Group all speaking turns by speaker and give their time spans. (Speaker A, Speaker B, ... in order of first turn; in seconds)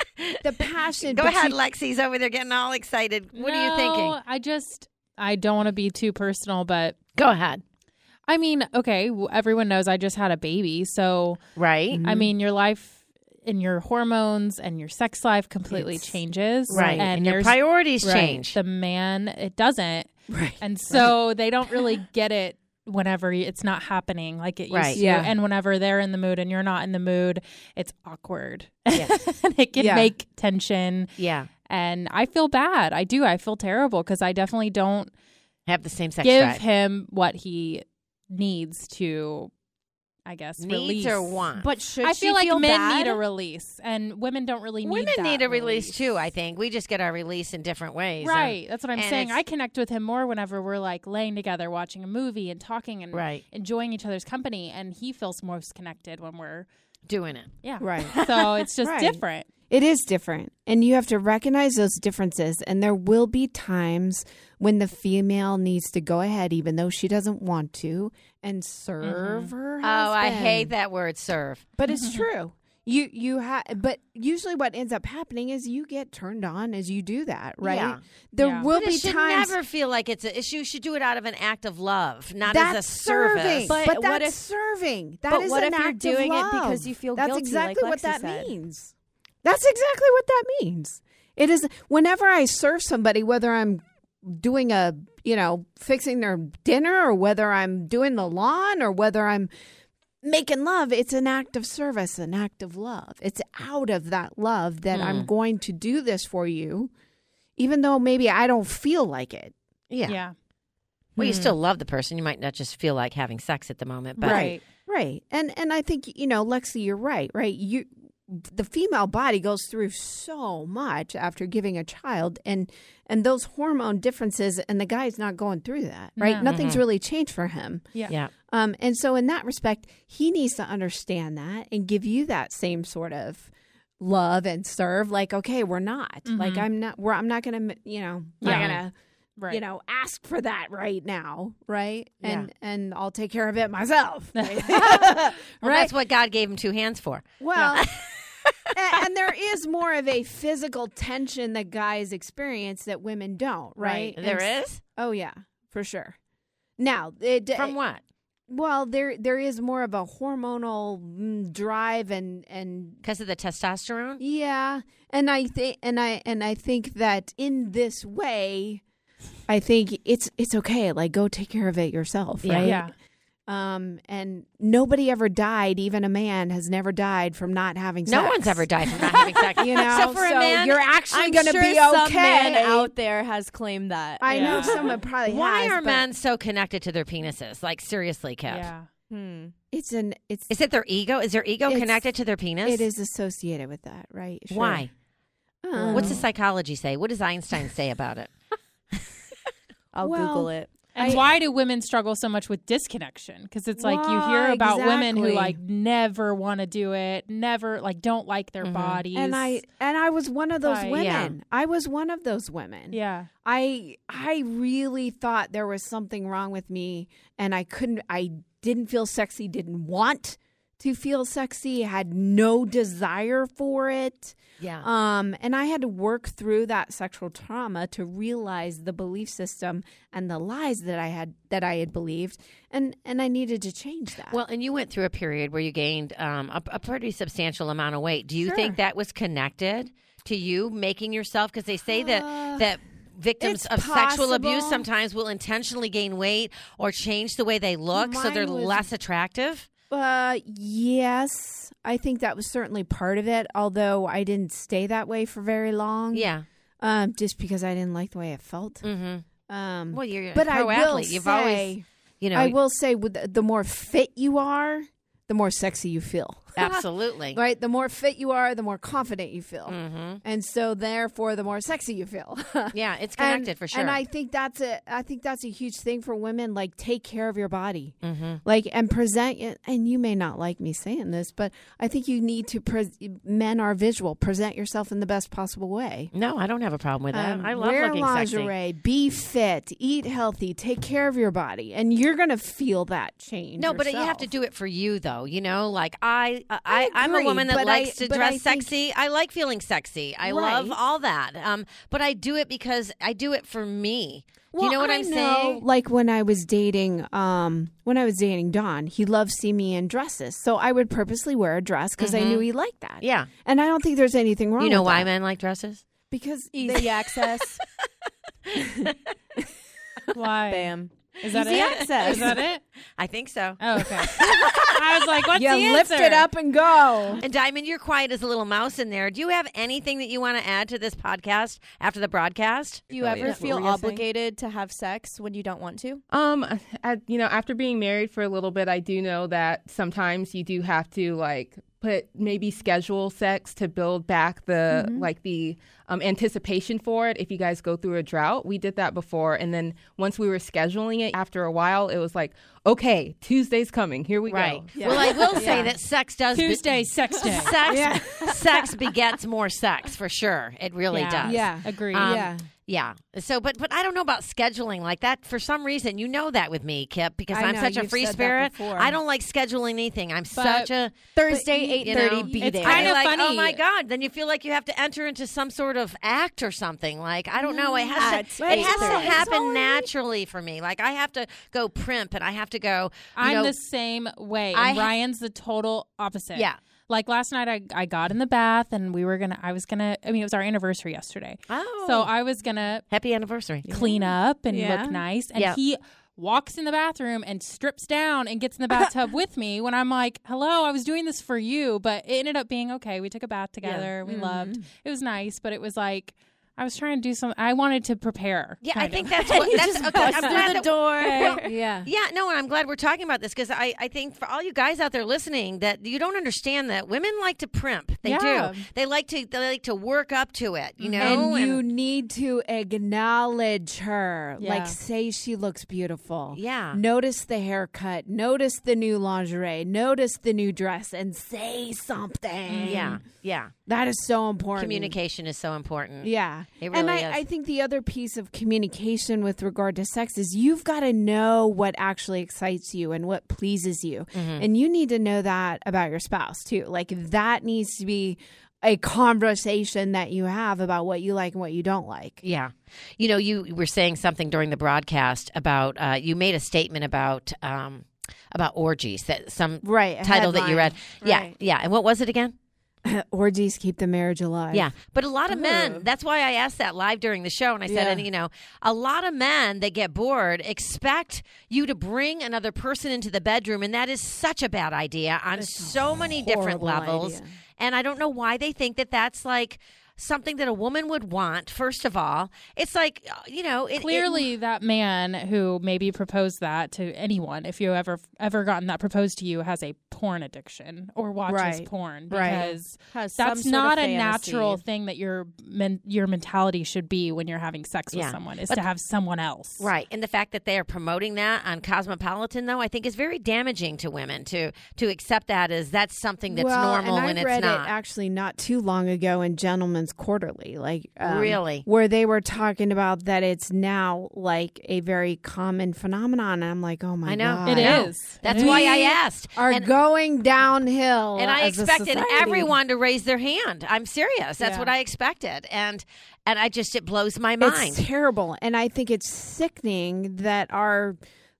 Speaker A: 0.4-1.6, 11.9-12.3, 15.7-17.1, 18.0-18.4, 20.3-21.1, 24.9-25.3, 29.8-30.1, 57.8-58.1, 58.8-70.7, 71.8-79.6, 82.4-88.9, 89.4-99.5, 100.2-106.9, 107.6-109.5, 114.2-127.9, 128.5-138.9, 139.5-145.9, 147.4-147.8, 148.7-156.2, 156.8-157.8, 158.5-163.0, 164.2-168.8, 169.5-172.9, 173.5-182.9, 184.2-186.1, 189.7-190.5, 191.7-192.0, 192.6-194.8, 195.6-196.2, 200.0-201.2, 203.8-205.6, 209.1-234.4, 238.4-238.8, 241.9-242.7, 243.4-244.8, 247.9-248.9, 249.9-256.3, 256.8-258.8, 259.5-286.1, 287.1-294.3, 296.6-298.7, 300.2-300.8, 304.5-315.1, 316.1-316.9, 325.3-327.2, 354.8-355.7, 357.6-358.7, 361.2-362.5, 367.3-369.0, 371.3-372.5, 377.4-379.9, 403.6-404.6, 411.4-411.9, 421.0-433.0, 433.6-435.0, 436.0-452.2, 459.6-461.3, 462.8-464.7, 465.3-465.9, 467.6-468.1, 475.3-477.3, 491.3-492.5, 506.3-522.5, 524.4-524.7, 527.4-531.0
Speaker B: 1.1-4.2, 7.2-7.6, 11.6-12.0, 16.7-18.6, 24.7-25.0, 28.9-29.2, 31.2-31.5, 35.7-36.6, 40.6-41.7, 44.8-49.4, 53.1-53.4, 57.1-57.5, 58.1-58.6, 69.8-71.6, 77.6-78.0, 78.7-83.8, 104.9-105.3, 109.9-110.2, 111.2-114.5, 126.4-126.8, 138.4-138.8, 142.2-142.5, 145.6-148.4, 153.8-154.8, 157.5-158.0, 163.0-164.2, 172.4-172.7, 178.0-180.8, 185.2-188.7, 190.5-192.9, 194.5-194.9, 195.9-198.3, 208.6-209.0, 210.9-211.3, 224.6-224.9, 234.3-249.7, 256.1-256.4, 258.8-259.2, 259.9-262.5, 266.6-267.4, 269.7-270.2, 272.7-274.0, 278.0-278.4, 286.1-288.5, 293.6-305.6, 312.0-312.5, 313.0-313.3, 314.6-315.8, 321.3-322.4, 323.0-324.7, 327.2-332.8, 354.3-371.2, 371.8-383.6, 384.5-384.9, 386.3-386.6, 391.5-392.1, 392.9-393.7, 408.6-421.6, 426.3-426.8, 432.6-433.5, 434.5-437.2, 444.1-444.5, 452.2-462.3, 464.5-484.3, 497.9-498.6, 499.6-507.7, 511.0-511.6, 517.0-519.7, 521.1-527.8
Speaker C: 3.3-7.0, 8.3-11.4, 12.0-17.6, 18.5-31.1, 31.6-35.1, 36.2-39.5, 40.2-41.4, 42.0-46.0, 48.2-56.7, 57.6-59.5, 69.0-69.5, 71.9-72.3, 78.4-78.7, 110.0-110.3, 114.2-114.6, 126.2-126.5, 136.2-136.7, 138.4-138.7, 139.4-139.6, 144.3-145.1, 172.6-172.9, 184.3-184.8, 188.5-188.9, 200.9-209.6, 210.6-211.0, 212.9-213.3, 320.1-322.6, 323.6-326.3, 356.3-357.6, 360.9-362.2, 370.3-370.7, 372.4-373.6, 383.1-392.8, 393.7-411.4, 424.4-424.8, 432.5-432.9, 483.8-499.7, 517.4-518.6
Speaker D: 41.6-43.2, 83.7-84.4, 85.3-88.5, 111.2-111.5, 181.1-184.9, 189.1-189.5, 195.8-196.2, 199.9-200.7, 316.5-317.6, 320.5-322.4, 332.9-336.0, 344.7-345.1, 354.9-355.7, 371.1-372.9, 377.9-379.2, 393.7-395.0, 409.4-411.5, 418.1-418.5, 492.2-494.6
Speaker E: 332.9-334.1, 336.1-355.7